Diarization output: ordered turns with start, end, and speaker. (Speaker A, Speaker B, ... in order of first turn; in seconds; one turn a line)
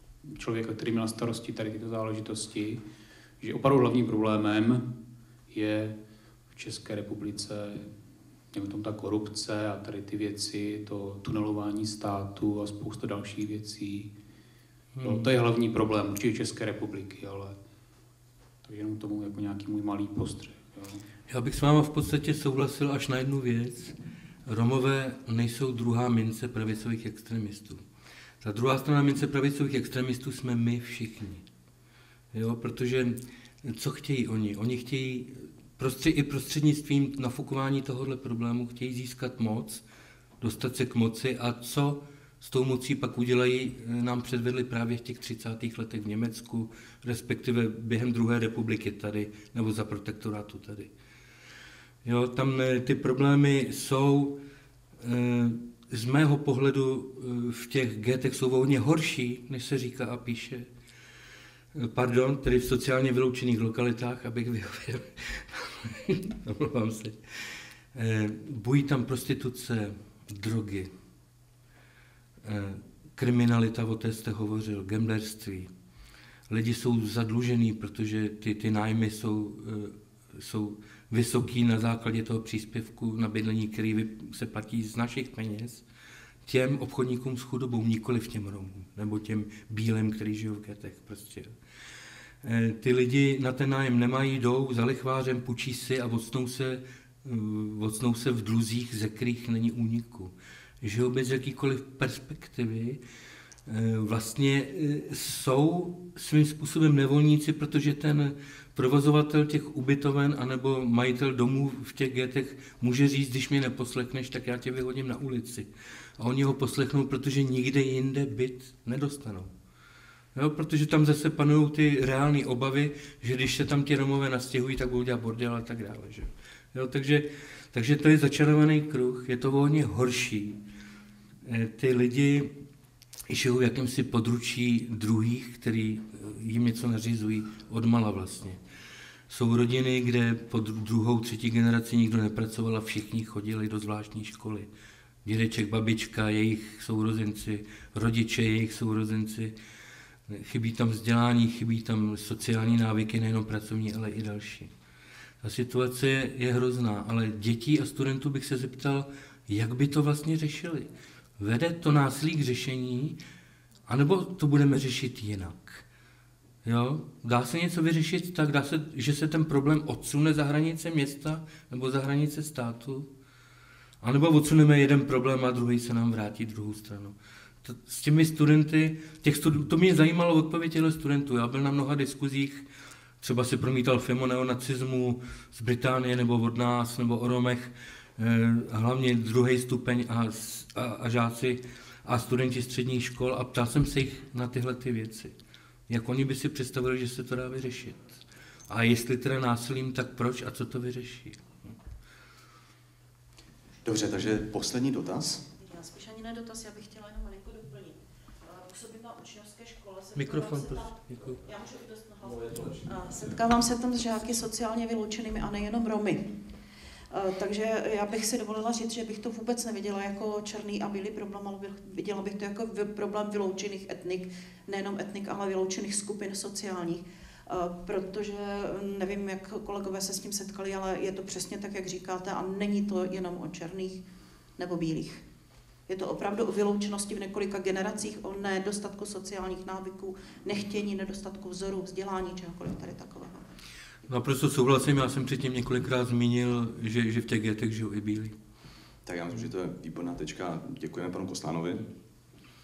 Speaker A: 0.2-2.8
Speaker A: 3.4-4.9
Speaker A: 5.5-6.0
Speaker A: 6.5-7.9
Speaker A: 8.5-14.1
Speaker B: 14.9-15.3
Speaker A: 15.0-17.6
Speaker A: 18.6-21.0
Speaker B: 21.3-23.9
Speaker B: 24.4-27.8
Speaker B: 28.4-31.4
Speaker B: 32.3-39.8
Speaker B: 40.4-50.9
Speaker B: 52.0-54.4
Speaker B: 55.0-60.7
Speaker B: 61.7-70.9
Speaker B: 72.4-75.7
Speaker B: 76.5-85.8
Speaker B: 86.4-91.5
Speaker B: 92.4-103.0
Speaker B: 103.7-119.5
Speaker B: 120.3-130.6
Speaker B: 131.4-132.5
Speaker B: 133.3-138.6
Speaker B: 139.3-144.7
Speaker B: 145.2-149.5
Speaker B: 150.3-154.7
Speaker B: 155.4-163.2
Speaker B: 163.9-165.8
Speaker B: 166.6-173.1
Speaker B: 174.0-182.7
Speaker B: 183.2-195.3
Speaker B: 195.9-201.5
Speaker C: 203.8-205.4
Speaker D: 205.6-216.3
Speaker B: 210.2-211.4
Speaker D: 217.1-234.0
Speaker D: 234.6-235.2
Speaker D: 235.9-243.4
Speaker B: 244.1-248.3
Speaker C: 249.1-251.9